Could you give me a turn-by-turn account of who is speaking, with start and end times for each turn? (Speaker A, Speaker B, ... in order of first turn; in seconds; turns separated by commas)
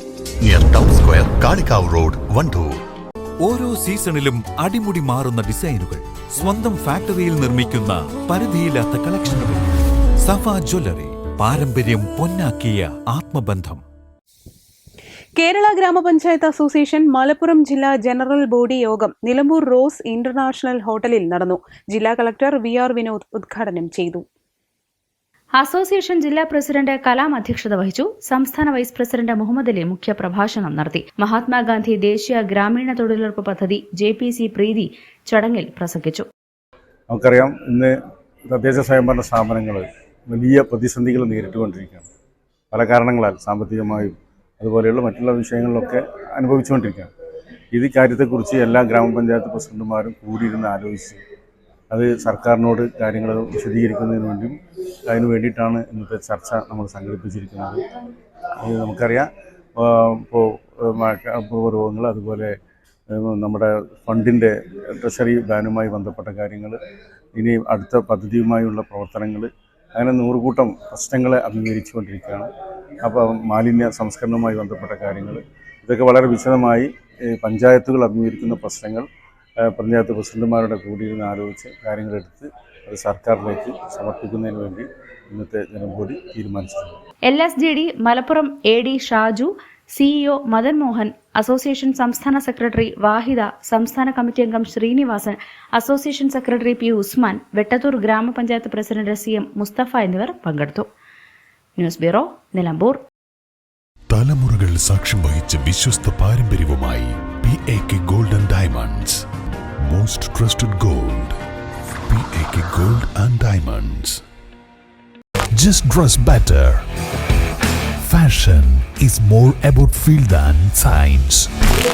Speaker A: 0.4-2.8, Speaker B: 3.4-13.8, Speaker C: 15.4-24.2, Speaker D: 25.6-36.3, Speaker E: 37.1-38.0, Speaker E: 38.5-42.0, Speaker E: 42.7-47.1, Speaker E: 47.7-51.2, Speaker E: 51.9-54.6, Speaker E: 55.1-57.8, Speaker E: 58.6-62.5, Speaker E: 63.1-66.8, Speaker E: 67.4-72.5, Speaker E: 73.0-79.1, Speaker E: 79.6-87.0, Speaker D: 87.3-100.9, Speaker D: 101.8-103.0, Speaker F: 104.1-109.2, Speaker F: 109.8-111.4, Speaker F: 112.1-114.2, Speaker F: 115.5-116.8, Speaker F: 118.0-121.5